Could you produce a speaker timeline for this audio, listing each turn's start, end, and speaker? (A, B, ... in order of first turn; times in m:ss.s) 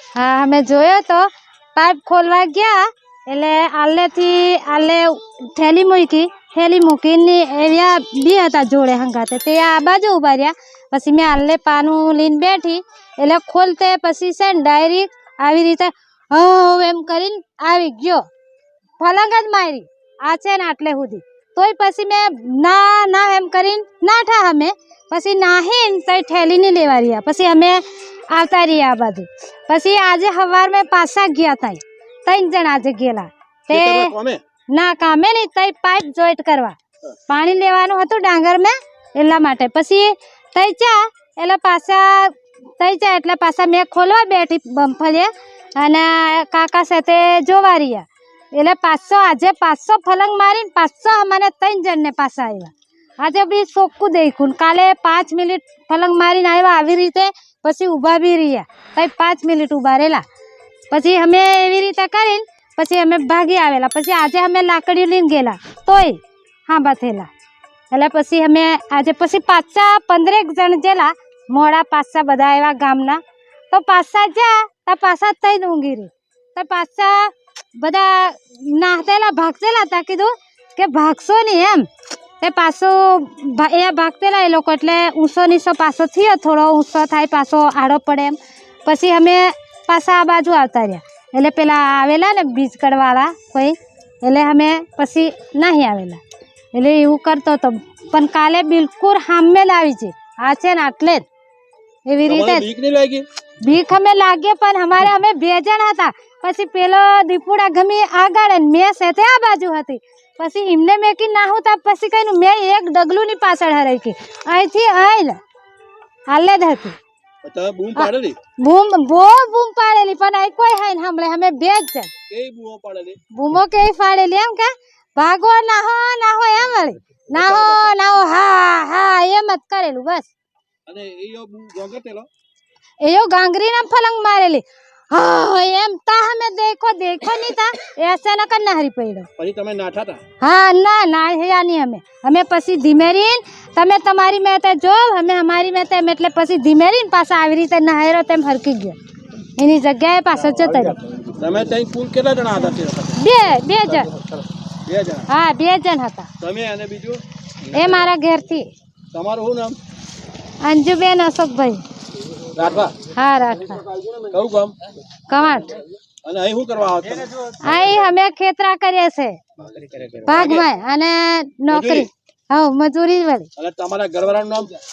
0:00.2-0:18.3 A
0:19.0-0:34.2 A
0:33.7-0:34.4 B
0:34.7-0:36.8 A
0:37.3-1:00.2 A
1:00.9-1:07.3 A
1:07.9-1:21.9 A
1:22.4-1:36.2 A
1:36.7-1:41.3 A
1:42.1-1:42.7 A
1:42.3-1:43.2 B
1:43.6-1:55.4 A
1:56.3-1:57.0 A
1:57.4-1:58.4 B
1:58.0-2:02.1 A
2:02.3-2:03.2 B
2:03.3-2:10.3 A
2:07.4-2:07.8 B
2:10.9-2:12.3 B
2:13.0-2:19.3 A
2:19.4-2:20.2 B
2:20.4-2:29.0 A
2:29.6-2:31.0 A
2:31.3-2:33.2 B
2:33.2-2:34.1 A
2:33.9-2:34.3 B
2:34.8-2:35.3 B
2:35.3-2:36.3 A
2:36.4-2:38.1 B
2:37.7-2:38.7 A
2:39.1-2:39.8 B
2:40.6-2:41.8 A
2:42.6-2:43.0 B
2:43.1-2:43.9 A
2:44.2-2:44.8 B
2:45.3-2:45.8 A
2:46.2-2:47.5 B
2:47.6-2:49.4 A
2:49.6-2:50.7 B
2:50.3-2:53.5 A
2:51.7-2:52.1 B
2:53.6-2:54.7 B